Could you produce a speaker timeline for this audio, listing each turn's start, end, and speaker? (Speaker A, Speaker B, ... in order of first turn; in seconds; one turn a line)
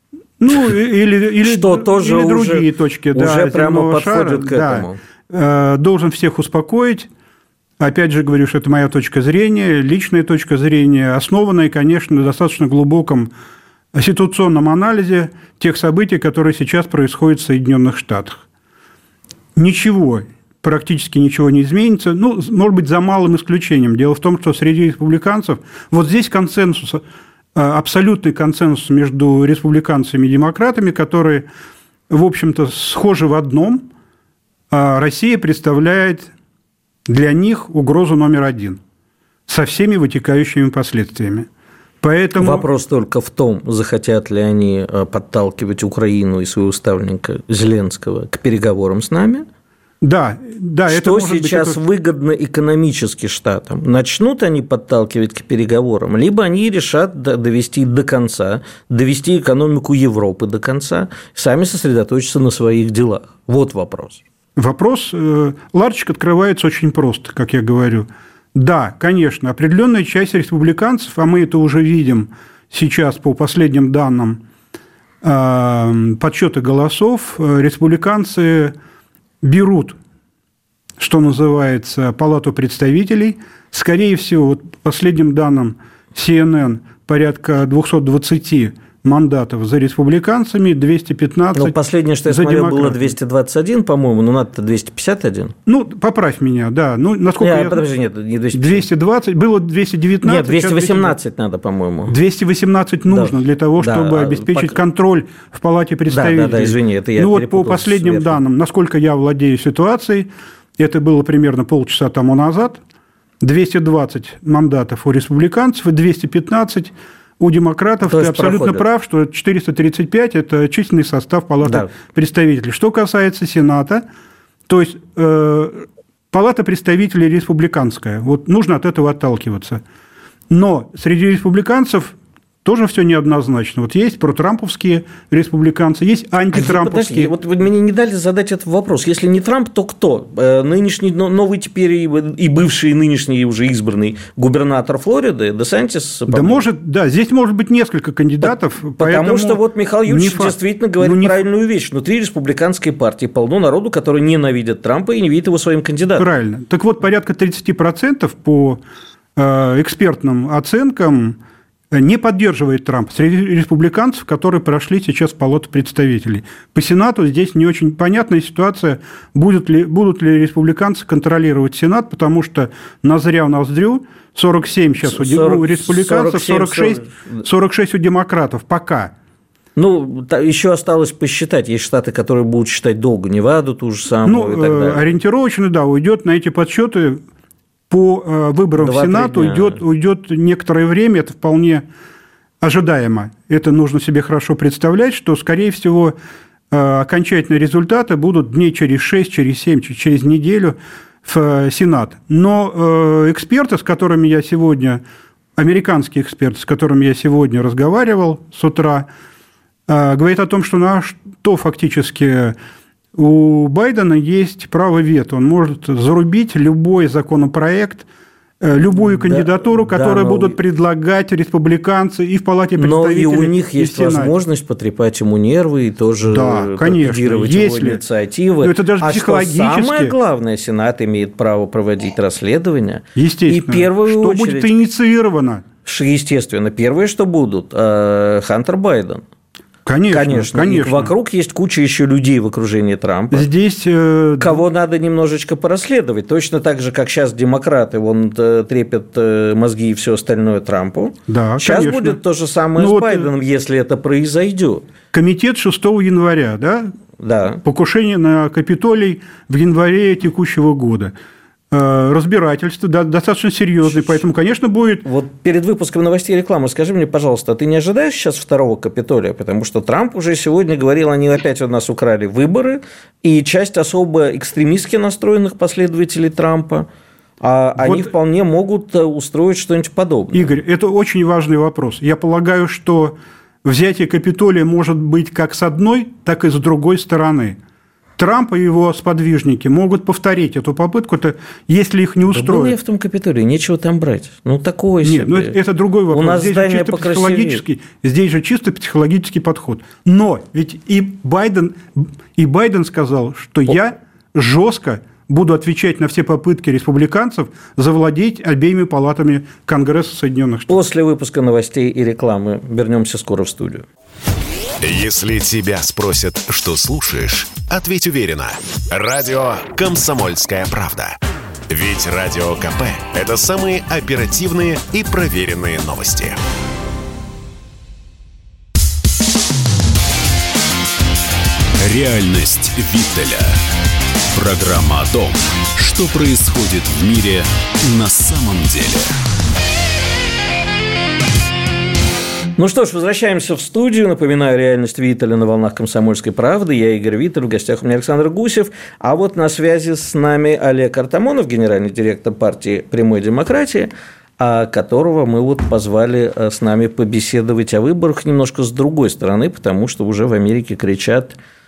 Speaker A: 0.4-7.1
Speaker B: 1.4-5.0
Speaker A: 7.8-13.3
Speaker A: 13.9-18.4
Speaker A: 19.6-27.0
Speaker A: 27.5-31.5
Speaker A: 32.1-33.9
Speaker A: 34.7-36.3
Speaker A: 37.1-38.8
Speaker A: 39.5-41.5
Speaker A: 42.0-42.6
Speaker B: 42.4-49.5
Speaker A: 50.0-51.8
Speaker B: 50.9-64.2
Speaker A: 64.5-74.4
Speaker A: 75.2-78.7
Speaker A: 79.4-80.0
Speaker A: 81.0-93.1
Speaker B: 91.5-95.5
Speaker A: 95.7-97.8
Speaker B: 97.4-98.9
Speaker A: 98.5-101.2
Speaker B: 100.2-102.1
Speaker A: 102.1-112.8
Speaker B: 103.1-104.8
Speaker B: 106.1-108.4
Speaker A: 113.4-124.0
Speaker B: 118.0-118.8
Speaker B: 121.6-121.9
Speaker A: 124.7-129.8
Speaker A: 130.5-137.3
Speaker B: 136.5-146.6
Speaker A: 146.3-151.4
Speaker B: 148.4-156.3
Speaker A: 156.2-158.8
Speaker A: 159.3-161.4
Speaker A: 161.9-179.1
Speaker B: 175.0-177.4
Speaker B: 179.8-185.0
Speaker A: 184.2-187.2
Speaker A: 187.9-191.8
Speaker B: 188.8-189.8
Speaker A: 192.6-196.1
Speaker A: 196.7-205.0
Speaker A: 205.6-209.1
Speaker A: 209.9-212.5
Speaker A: 213.1-218.1
Speaker A: 218.6-224.3
Speaker B: 218.9-220.6
Speaker B: 222.8-234.7
Speaker A: 226.2-228.0
Speaker A: 228.6-230.1
Speaker A: 233.1-235.6
Speaker B: 235.8-239.2
Speaker A: 239.8-241.1
Speaker B: 240.1-243.5
Speaker A: 243.3-244.6
Speaker B: 244.4-254.8
Speaker A: 251.3-252.2
Speaker A: 252.8-253.3
Speaker A: 255.1-256.9
Speaker B: 257.2-257.6
Speaker A: 257.6-261.1
Speaker A: 261.7-265.0
Speaker B: 265.0-276.9
Speaker B: 277.4-280.5
Speaker A: 277.8-278.1
Speaker A: 280.3-287.6
Speaker A: 288.2-292.8
Speaker B: 292.3-295.6
Speaker A: 295.0-310.8
Speaker B: 296.1-297.6
Speaker B: 310.7-313.9
Speaker C: 314.8-321.2
Speaker C: 321.7-326.4
Speaker D: 331.8-333.6
Speaker D: 334.3-339.1
Speaker B: 342.6-361.4